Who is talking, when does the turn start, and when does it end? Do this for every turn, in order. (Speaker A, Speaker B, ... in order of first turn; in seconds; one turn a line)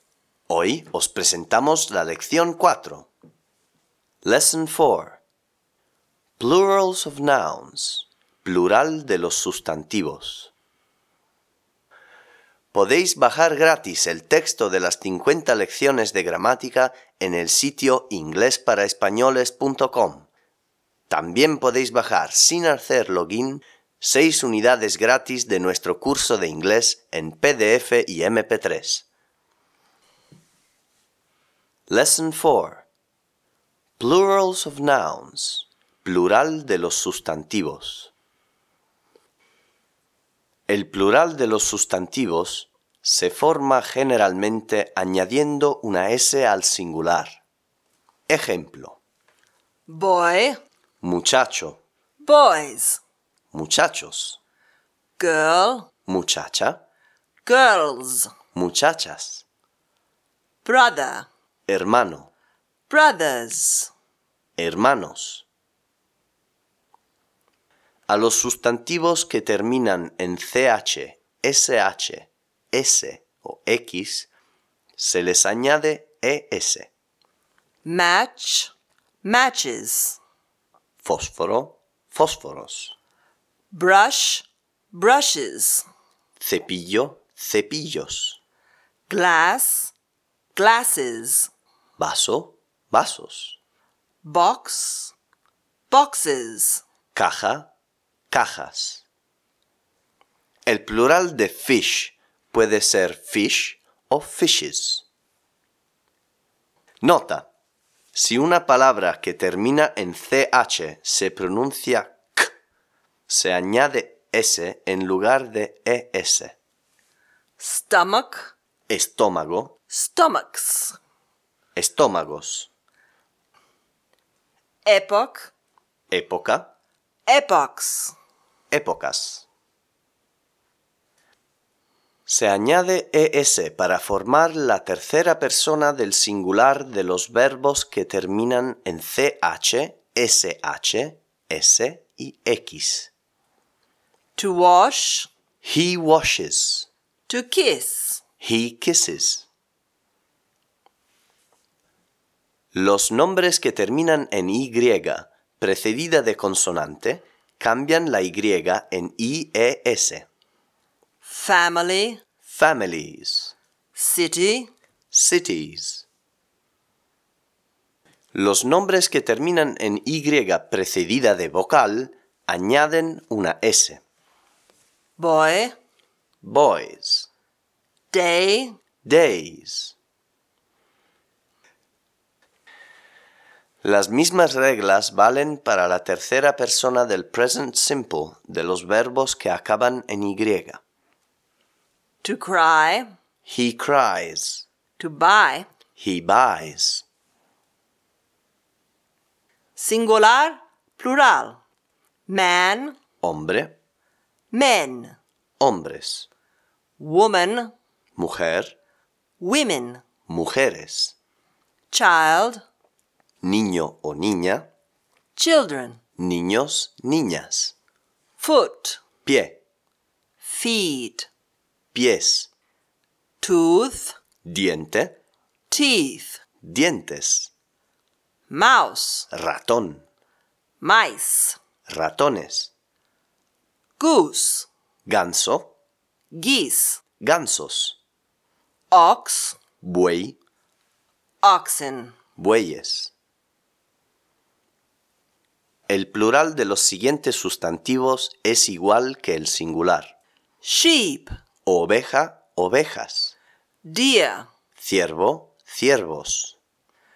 Speaker A: 0.5-3.1
Speaker A: 4.2-5.2
Speaker A: 6.4-10.5
Speaker A: 12.7-20.3
Speaker A: 21.1-29.1
Speaker A: 31.9-32.9
Speaker A: 34.0-38.1
Speaker A: 40.7-47.4
Speaker A: 48.3-49.0
Speaker B: 49.9-50.6
Speaker A: 51.0-51.8
Speaker B: 52.2-53.0
Speaker A: 53.5-54.4
Speaker B: 55.2-55.9
Speaker A: 56.1-56.8
Speaker B: 57.4-58.3
Speaker A: 58.5-59.5
Speaker B: 60.6-61.3
Speaker A: 61.7-62.3
Speaker B: 62.9-63.9
Speaker A: 64.6-65.5
Speaker A: 68.1-74.3
Speaker A: 75.0-76.9
Speaker B: 77.8-78.7
Speaker B: 79.2-80.2
Speaker A: 81.0-83.0
Speaker B: 83.7-85.9
Speaker A: 86.4-88.4
Speaker B: 89.1-89.9
Speaker B: 90.5-91.5
Speaker A: 92.0-93.6
Speaker B: 94.2-95.1
Speaker B: 95.9-96.8
Speaker A: 97.2-97.7
Speaker A: 98.3-99.0
Speaker A: 100.7-105.0
Speaker A: 107.0-107.5
Speaker A: 108.1-112.5
Speaker A: 113.3-116.5
Speaker B: 117.6-118.5
Speaker A: 118.9-119.8
Speaker B: 119.9-121.0
Speaker A: 121.8-122.7
Speaker B: 124.8-125.5
Speaker A: 126.1-126.7
Speaker B: 127.3-128.1
Speaker A: 128.7-129.5
Speaker A: 132.3-143.1
Speaker B: 144.4-145.3
Speaker A: 145.6-146.9
Speaker B: 147.3-148.2
Speaker A: 148.4-149.5
Speaker A: 152.7-160.3
Speaker B: 161.2-162.2
Speaker A: 162.5-163.5
Speaker B: 164.0-164.7
Speaker A: 165.1-166.1
Speaker A: 168.3-174.0
Speaker B: 175.2-175.8
Speaker A: 176.4-177.3
Speaker B: 178.1-178.8
Speaker A: 179.0-180.0
Speaker A: 183.8-190.8
Speaker B: 192.2-193.1
Speaker A: 193.5-194.7
Speaker B: 195.0-195.7
Speaker A: 196.0-197.1
Speaker B: 199.8-201.6
Speaker B: 202.3-203.0
Speaker A: 203.2-203.8
Speaker B: 204.5-205.2
Speaker A: 205.6-206.3
Speaker B: 207.0-207.7
Speaker A: 208.2-208.8
Speaker B: 209.4-210.0
Speaker A: 210.3-211.2
Speaker B: 211.9-212.6
Speaker A: 213.4-214.7
Speaker B: 215.3-216.0
Speaker A: 216.2-217.8
Speaker B: 218.4-219.0
Speaker A: 219.2-219.6
Speaker B: 220.4-221.3
Speaker A: 221.9-222.5
Speaker B: 223.4-224.2
Speaker A: 224.4-225.2
Speaker B: 225.7-226.4
Speaker A: 226.6-227.5
Speaker B: 228.5-229.3
Speaker A: 229.3-230.0
Speaker B: 230.8-231.6
Speaker A: 231.9-232.7
Speaker B: 234.0-234.7
Speaker A: 235.1-235.7
Speaker B: 236.3-237.0
Speaker A: 237.2-238.0
Speaker B: 238.9-239.6
Speaker A: 239.8-240.4
Speaker B: 241.4-242.2
Speaker A: 242.4-243.1
Speaker A: 245.9-250.1
Speaker B: 250.6-251.3
Speaker A: 251.7-253.3
Speaker B: 253.8-254.5
Speaker A: 254.8-256.6